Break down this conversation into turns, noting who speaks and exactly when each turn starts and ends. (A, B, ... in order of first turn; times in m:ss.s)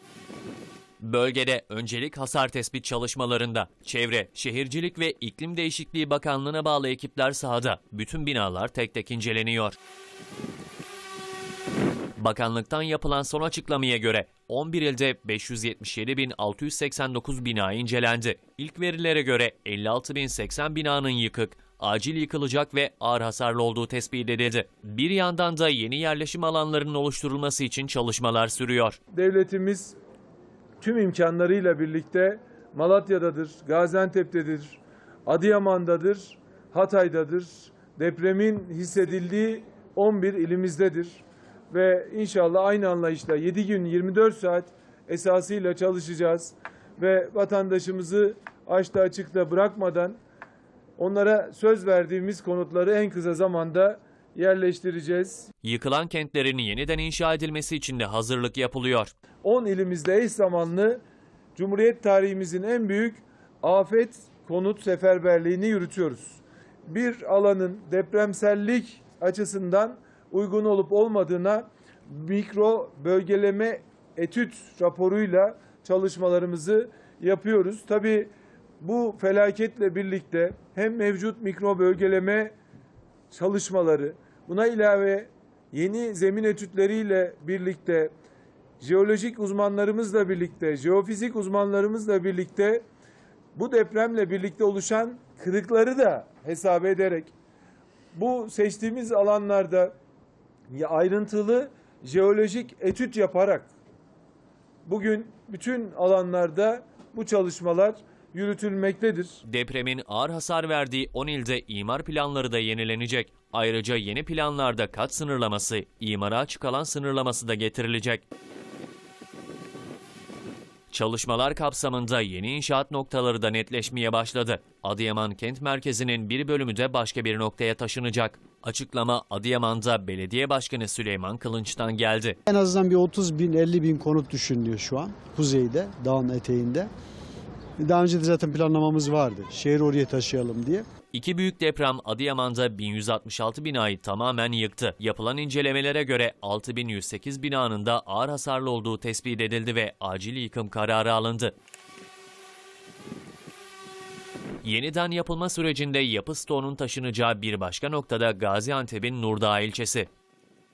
0:01.0-0:09.8 A
0:12.2-0:29.0 A
0:29.1-0:30.0 B
0:30.8-0:50.2 B
0:51.0-0:55.5 B
0:55.6-0:59.1 A
0:59.4-1:01.0 B
1:01.6-1:22.5 B
1:23.3-1:28.1 B
1:28.8-1:32.8 B
1:33.5-1:37.3 B
1:38.1-1:39.9 B
1:40.7-1:43.7 B
1:44.8-1:49.4 B
1:49.4-1:58.2 A
2:00.9-2:12.4 A
2:12.5-2:16.9 C
2:17.8-2:20.8 C
2:21.1-2:31.5 A
2:34.6-2:40.1 A